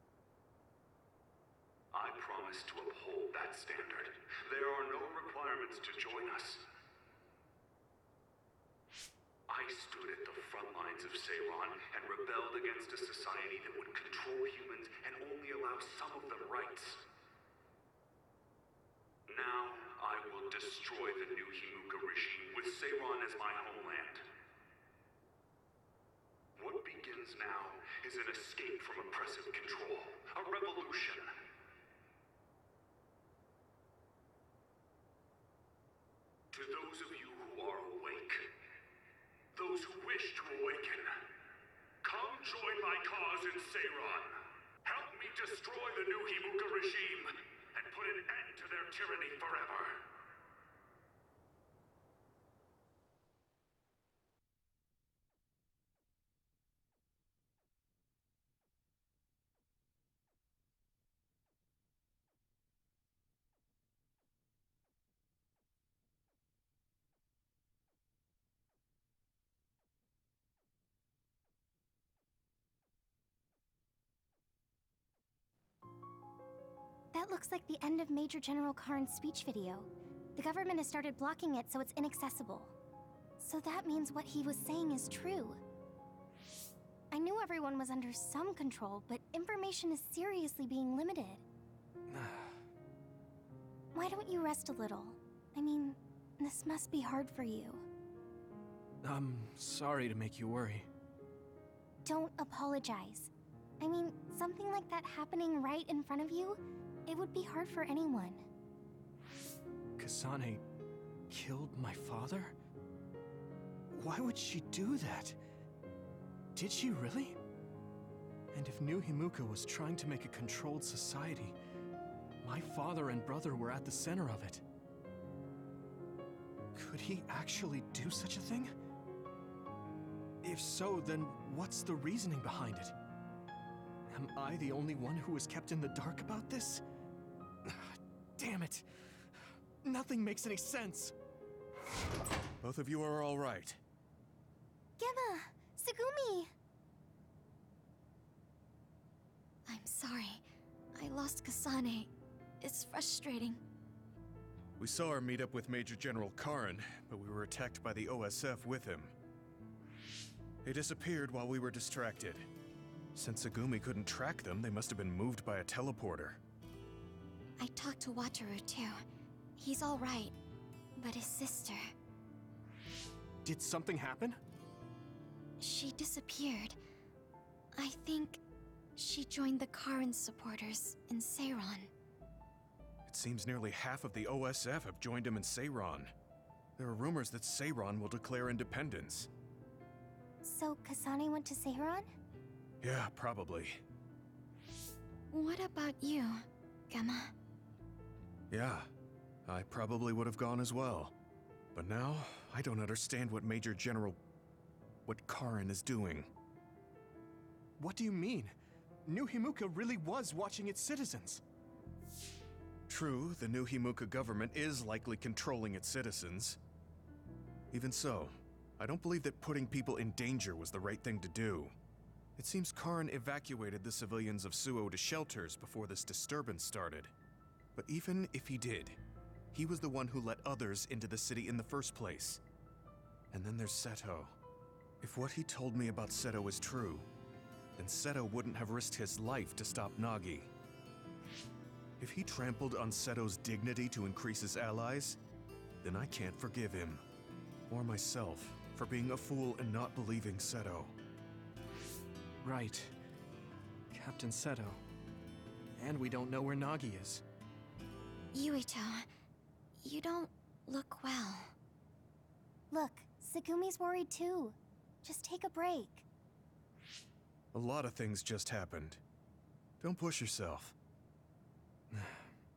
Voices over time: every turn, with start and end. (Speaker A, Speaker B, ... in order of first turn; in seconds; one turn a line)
Speaker A: 1.9-6.7
Speaker A: 9.5-17.0
Speaker A: 19.3-24.3
Speaker A: 26.6-31.3
Speaker A: 36.5-38.5
Speaker A: 39.5-41.3
Speaker A: 42.0-50.0
Speaker B: 77.1-82.7
Speaker B: 83.4-85.6
Speaker B: 87.1-91.4
Speaker C: 92.1-92.5
Speaker B: 93.9-97.8
Speaker C: 99.0-100.9
Speaker B: 102.0-108.4
Speaker C: 110.0-110.6
Speaker C: 111.3-112.5
Speaker C: 113.9-115.4
Speaker C: 116.5-117.4
Speaker C: 118.5-121.5
Speaker C: 122.4-124.6
Speaker C: 126.7-128.7
Speaker C: 130.4-132.9
Speaker C: 134.1-136.8
Speaker C: 137.6-138.8
Speaker C: 139.8-141.1
Speaker D: 142.6-143.8
Speaker B: 145.0-146.5
Speaker E: 149.7-150.4
Speaker E: 150.9-152.1
Speaker E: 152.6-153.6
Speaker D: 154.8-159.1
Speaker D: 160.6-162.5
Speaker D: 163.1-166.4
Speaker E: 167.6-169.0
Speaker E: 169.6-170.3
Speaker E: 170.9-171.9
Speaker C: 173.4-174.4
Speaker E: 175.6-176.8
Speaker E: 177.7-178.4
Speaker E: 178.9-181.9
Speaker D: 183.1-186.1
Speaker D: 186.8-189.3
Speaker B: 190.4-192.1
Speaker D: 192.8-193.8
Speaker E: 195.3-197.3
Speaker D: 198.5-198.9
Speaker D: 199.4-201.1
Speaker D: 201.7-204.2
Speaker D: 205.1-206.3
Speaker C: 207.8-208.5
Speaker C: 209.1-211.4
Speaker D: 212.9-216.6
Speaker D: 217.7-221.7
Speaker D: 222.4-227.1
Speaker D: 227.8-229.0
Speaker D: 229.5-232.4
Speaker D: 233.3-234.3
Speaker D: 235.0-237.1
Speaker D: 237.8-240.5
Speaker D: 242.0-245.2
Speaker D: 245.8-247.0
Speaker D: 247.7-250.9
Speaker C: 252.4-252.9
Speaker C: 253.9-254.8
Speaker C: 255.8-257.2
Speaker E: 258.3-259.1
Speaker E: 259.8-261.5
Speaker B: 262.7-266.0
Speaker D: 267.5-269.0
Speaker D: 269.8-270.7
Speaker C: 271.9-272.3